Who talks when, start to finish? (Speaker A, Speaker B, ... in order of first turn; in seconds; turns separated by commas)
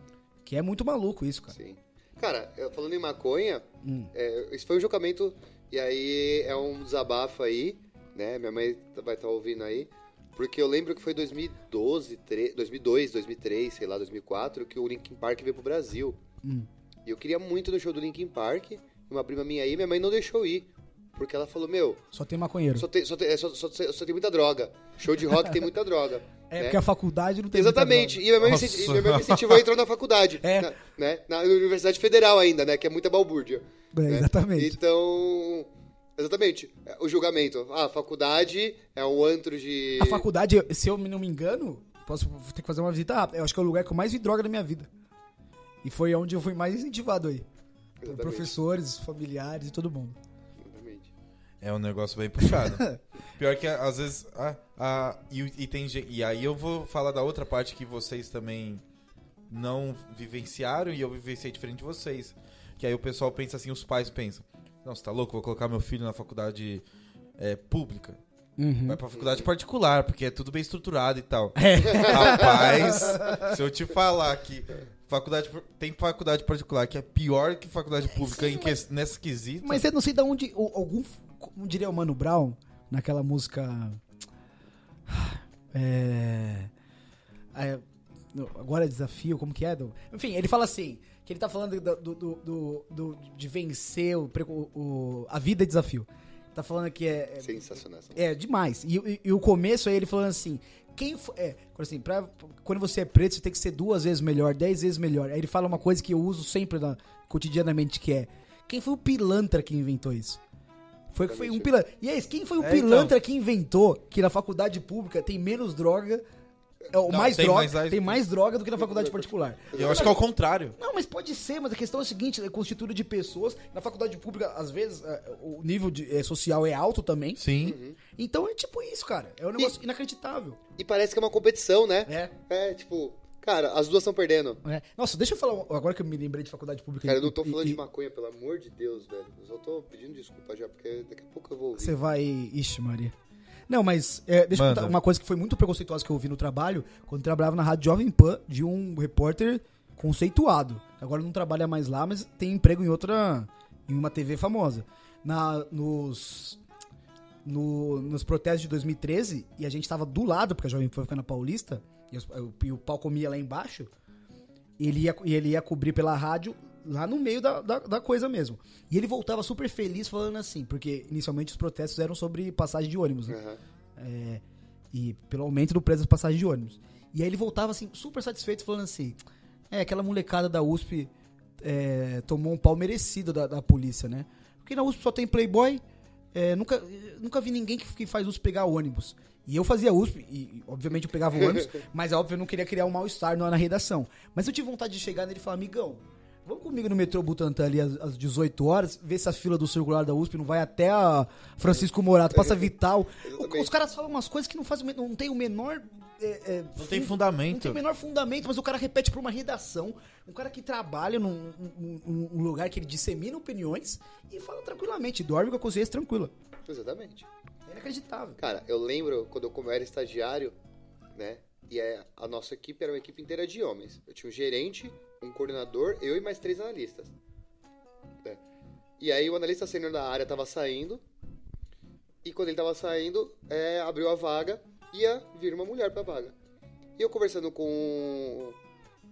Speaker A: 0.5-1.6, Speaker B: 1.5-16.2, Speaker A: 3.8-4.1, Speaker A: 16.4-16.7, Speaker B: 17.1-22.0, Speaker A: 22.1-22.9, Speaker B: 22.8-26.8, Speaker A: 26.5-28.3, Speaker B: 27.5-40.3, Speaker C: 28.4-29.6, Speaker A: 30.4-30.7, Speaker A: 33.9-34.8, Speaker A: 40.0-44.9, Speaker A: 45.8-47.5, Speaker B: 48.0-48.6, Speaker A: 48.0-50.2, Speaker B: 50.6-51.1, Speaker C: 51.6-58.8, Speaker A: 52.5-52.9, Speaker C: 59.5-66.8, Speaker C: 67.4-68.2, Speaker A: 68.6-69.0, Speaker C: 68.9-79.9, Speaker B: 69.2-69.5, Speaker A: 71.6-73.6, Speaker B: 71.9-72.5, Speaker A: 78.3-78.8, Speaker A: 79.6-84.0, Speaker A: 85.1-86.7, Speaker A: 87.5-87.8, Speaker A: 88.3-97.6, Speaker B: 97.4-98.2, Speaker A: 98.2-110.4, Speaker A: 111.1-116.2, Speaker B: 111.3-111.7, Speaker C: 112.6-113.1, Speaker A: 116.9-120.2, Speaker C: 117.1-118.2, Speaker B: 118.8-120.2, Speaker C: 119.7-120.8, Speaker A: 120.8-127.4, Speaker C: 127.4-127.8, Speaker B: 127.6-128.0, Speaker A: 128.2-130.6, Speaker B: 130.8-134.6, Speaker A: 132.1-132.3, Speaker A: 134.6-137.8, Speaker B: 137.1-142.0, Speaker A: 141.8-143.1, Speaker A: 143.7-156.6, Speaker C: 144.5-145.0, Speaker A: 157.4-163.9, Speaker A: 164.8-173.4, Speaker B: 173.3-173.6, Speaker A: 174.0-179.2, Speaker A: 179.7-185.8, Speaker A: 186.3-216.3, Speaker B: 201.7-202.7, Speaker B: 203.2-203.7, Speaker C: 206.8-207.8, Speaker B: 216.7-217.3, Speaker A: 217.7-218.4, Speaker B: 218.4-220.6, Speaker B: 221.2-227.1, Speaker B: 229.0-231.0, Speaker B: 232.2-236.3, Speaker B: 237.0-238.6